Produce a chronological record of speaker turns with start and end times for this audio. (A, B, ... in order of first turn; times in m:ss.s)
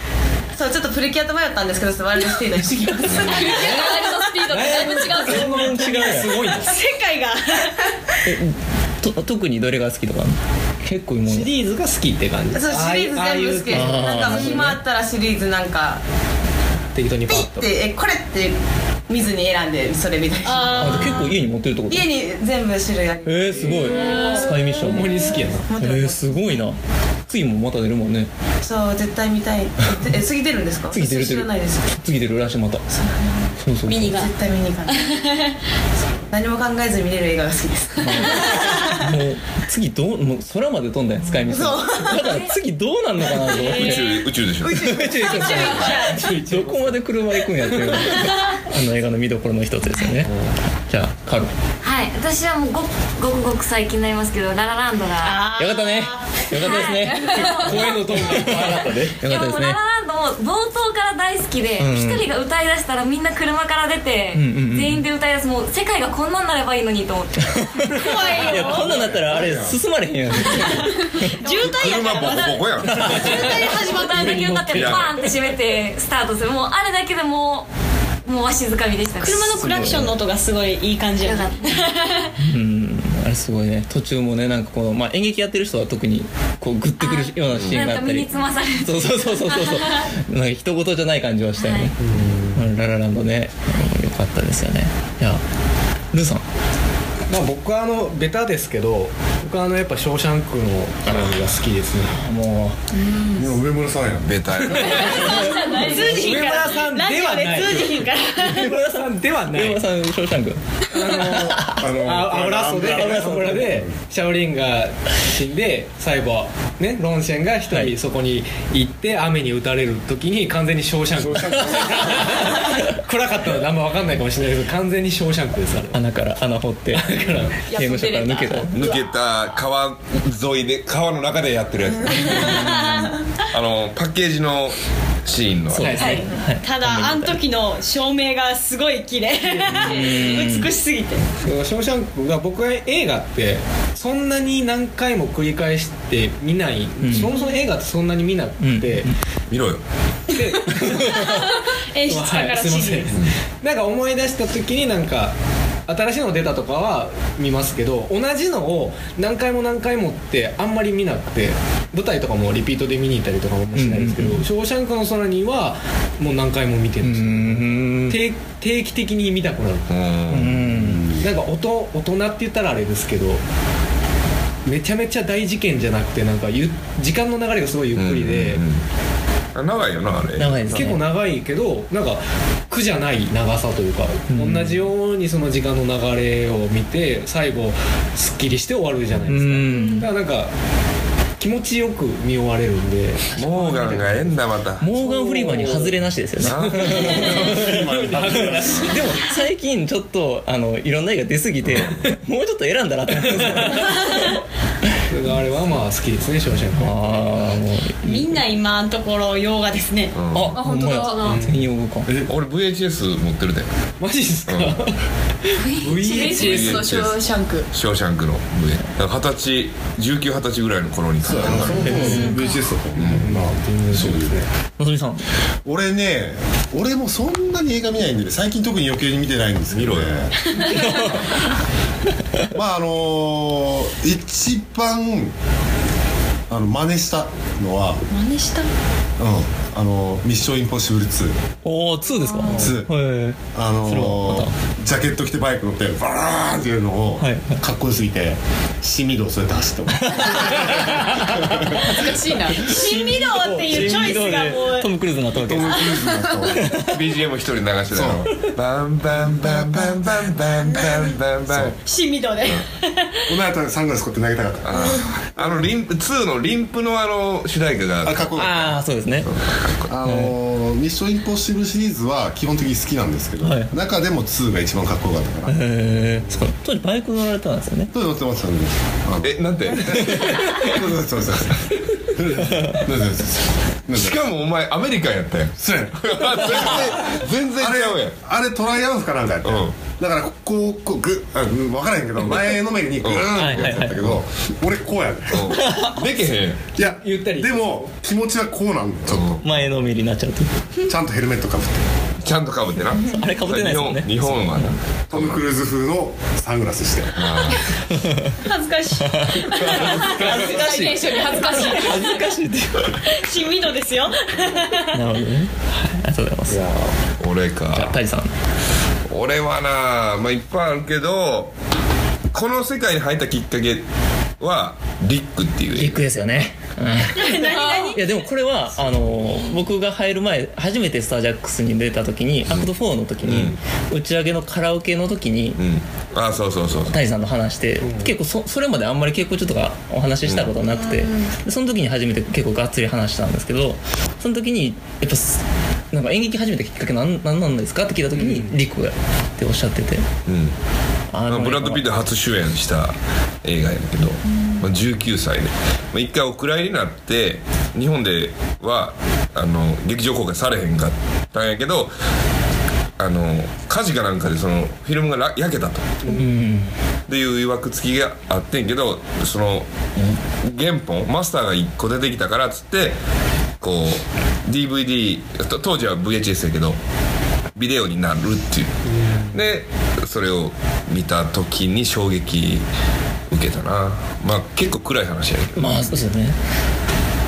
0:00.6-0:03.5 A
0:02.6-0:03.5 B
0:03.1-0:03.4 C
0:03.3-0:05.7 D
0:03.5-0:05.1 E
0:03.5-0:04.0 F
0:04.5-0:06.8 F
0:05.2-0:06.4 B
0:06.2-0:08.2 E
0:08.2-0:11.5 B
0:11.2-0:14.6 F
0:12.5-0:16.0 A
0:13.7-0:14.8 B
0:16.9-0:17.7 F
0:17.3-0:18.6 A
0:19.1-0:21.0 A
0:20.4-0:21.4 E
0:20.8-0:22.1 B
0:21.9-0:24.4 A
0:23.2-0:25.1 B
0:23.7-0:24.5 E
0:24.8-0:25.7 F
0:25.7-0:26.4 A
0:25.8-0:28.3 B
0:28.6-0:31.9 A
0:30.9-0:32.8 B
0:32.9-0:33.5 A
0:33.6-0:34.2 B
0:33.9-0:34.3 E
0:34.1-0:35.2 A
0:34.9-0:35.4 E
0:36.3-0:38.7 A
0:38.0-0:44.2 B
0:38.4-0:38.7 E
0:41.5-0:42.3 A
0:42.2-0:42.6 G
0:43.4-0:44.2 E
0:43.8-0:44.8 C
0:44.6-0:46.1 A
0:44.7-0:50.3 B
0:45.1-0:47.0 F
0:45.2-0:46.2 E
0:47.6-0:48.0 F
0:50.3-0:50.5 F
0:50.9-0:51.5 B
0:51.8-0:55.4 G
0:55.2-0:57.5 E
0:55.6-0:59.8 B
0:56.7-1:08.2 G
0:57.4-0:59.2 F
1:01.8-1:02.3 B
1:04.3-1:05.0 B
1:07.5-1:11.3 B
1:08.0-1:08.9 E
1:08.4-1:09.8 H
1:10.4-1:14.4 E
1:11.5-1:13.6 C
1:12.8-1:17.7 G
1:12.9-1:13.2 F
1:14.1-1:15.1 F
1:14.8-1:15.1 C
1:18.2-1:19.7 G
1:19.2-1:22.3 E
1:19.5-1:20.1 B
1:21.2-1:21.9 G
1:22.4-1:31.9 B
1:27.0-1:29.9 G
1:27.5-1:27.8 C
1:31.6-1:31.9 G
1:32.0-1:32.6 F
1:32.5-1:35.4 B
1:36.1-1:36.4 B
1:37.3-1:42.2 F
1:41.1-1:41.3 B
1:42.1-1:42.8 B
1:43.3-1:44.3 H
1:44.3-1:45.2 C
1:44.6-1:49.8 F
1:44.9-1:48.7 E
1:45.1-1:45.8 B
1:48.5-1:50.6 B
1:50.9-2:06.0 F
1:51.1-1:51.8 B
1:51.2-1:53.9 H
1:52.9-1:53.7 B
1:57.7-1:57.9 B
2:01.2-2:02.2 H
2:05.9-2:07.0 B
2:06.9-2:07.8 F
2:07.6-2:08.9 D
2:07.7-2:08.8 B
2:08.7-2:16.0 C
2:12.3-2:13.0 E
2:15.7-2:17.4 B
2:15.7-2:16.3 F
2:16.0-2:21.3 E
2:19.5-2:20.3 F
2:19.7-2:20.7 B
2:21.4-2:29.1 F
2:27.0-2:27.3 B
2:28.6-2:29.2 B
2:29.5-2:29.8 C
2:30.3-2:31.3 F
2:30.9-2:33.2 E
2:32.1-2:35.4 F
2:35.9-2:49.9 F
2:43.8-2:44.4 B
2:47.0-2:48.2 B
2:49.9-2:50.6 C
2:50.3-2:51.1 B
2:50.8-2:51.1 H
2:51.2-2:53.4 F
2:54.7-2:58.6 F
2:57.9-2:58.8 C
2:59.6-3:00.9 C
3:00.4-3:01.0 B
3:00.7-3:10.5 F
3:04.3-3:04.8 B
3:09.3-3:10.0 B
3:09.7-3:10.0 E
3:11.4-3:19.0 F
3:13.4-3:14.9 C
3:14.8-3:17.8 B
3:16.4-3:17.3 C
3:17.1-3:18.9 H
3:18.4-3:24.3 B
3:23.1-3:23.8 F
3:25.1-3:27.5 F
3:26.8-3:28.4 B
3:28.0-3:30.2 E
3:30.2-3:30.6 C
3:30.3-3:32.1 B
3:30.5-3:31.3 D
3:31.0-3:31.4 E
3:31.2-3:31.7 F
3:32.1-3:32.3 H
3:32.3-3:33.7 C
3:34.0-3:36.8 F
3:34.5-3:34.8 C
3:35.6-3:36.5 G
3:36.2-3:37.7 D
3:36.3-3:37.2 C
3:37.7-3:42.0 C
3:41.2-3:44.4 H
3:41.8-3:42.3 B
3:41.8-3:42.1 F
3:42.0-3:42.5 E
3:42.9-3:44.5 F
3:44.8-3:45.2 B
3:45.6-3:50.3 H
3:49.7-3:50.2 C
3:50.6-3:51.1 E
3:50.7-3:51.3 B
3:52.5-3:55.3 H
3:56.5-3:58.0 H
3:58.1-3:58.7 A
3:59.2-4:01.4 H
4:01.6-4:04.5 B
4:02.5-4:02.9 H
4:03.5-4:11.9 H
4:07.2-4:07.6 B
4:10.0-4:11.2 B
4:11.9-4:12.7 D
4:12.5-4:14.9 E
4:12.6-4:15.9 B
4:15.4-4:16.8 H
4:15.5-4:16.0 E
4:16.5-4:17.0 B
4:16.8-4:21.8 C
4:17.9-4:18.3 H
4:21.9-4:23.1 E
4:23.3-4:25.7 H
4:24.6-4:28.3 C
4:28.0-4:28.7 H
4:28.4-4:29.3 B
4:29.2-4:29.9 C
4:29.9-4:35.6 H
4:30.0-4:30.3 B
4:33.4-4:33.7 B
4:35.5-4:37.9 B
4:37.9-4:39.3 H
4:39.2-4:40.4 C
4:40.6-4:44.2 H
4:44.0-4:48.2 C
4:45.6-4:55.5 H
4:49.4-4:49.8 C
4:53.0-4:54.2 C
4:53.4-4:54.0 B
4:55.3-4:56.6 C
4:55.5-4:56.0 B
4:56.8-4:59.3 H
4:56.8-4:57.9 F
4:59.1-4:59.6 C
4:59.4-5:00.5 B
5:00.9-5:01.9 H
5:02.2-5:05.4 C
5:03.0-5:04.8 B
5:05.1-5:07.3 H
5:07.2-5:07.6 C
5:08.4-5:10.6 E
5:09.8-5:10.2 C
5:10.0-5:13.0 B
5:10.4-5:12.2 D
5:11.6-5:12.1 E
5:13.1-5:15.0 E
5:14.9-5:16.6 B
5:16.5-5:17.0 F
5:17.2-5:18.0 C
5:17.7-5:18.3 B
5:19.1-5:21.5 C
5:22.3-5:23.8 C
5:24.4-5:26.1 C
5:25.7-5:35.6 B
5:27.2-5:28.2 E
5:27.4-5:27.9 D
5:33.2-5:33.6 C
5:35.6-5:37.0 C
5:36.8-5:50.0 B
5:37.8-5:38.2 F
5:40.2-5:40.5 C
5:48.1-5:48.6 F
5:50.3-5:50.6 C
5:51.1-5:51.9 B
5:51.3-6:01.9 C
6:03.0-6:06.1 C
6:06.1-6:06.7 B
6:07.1-6:13.0 C
6:13.6-6:16.8 C
6:17.6-6:18.8 C
6:18.9-6:19.4 F
6:19.3-6:22.7 C
6:23.3-6:25.9 C
6:25.5-6:26.4 B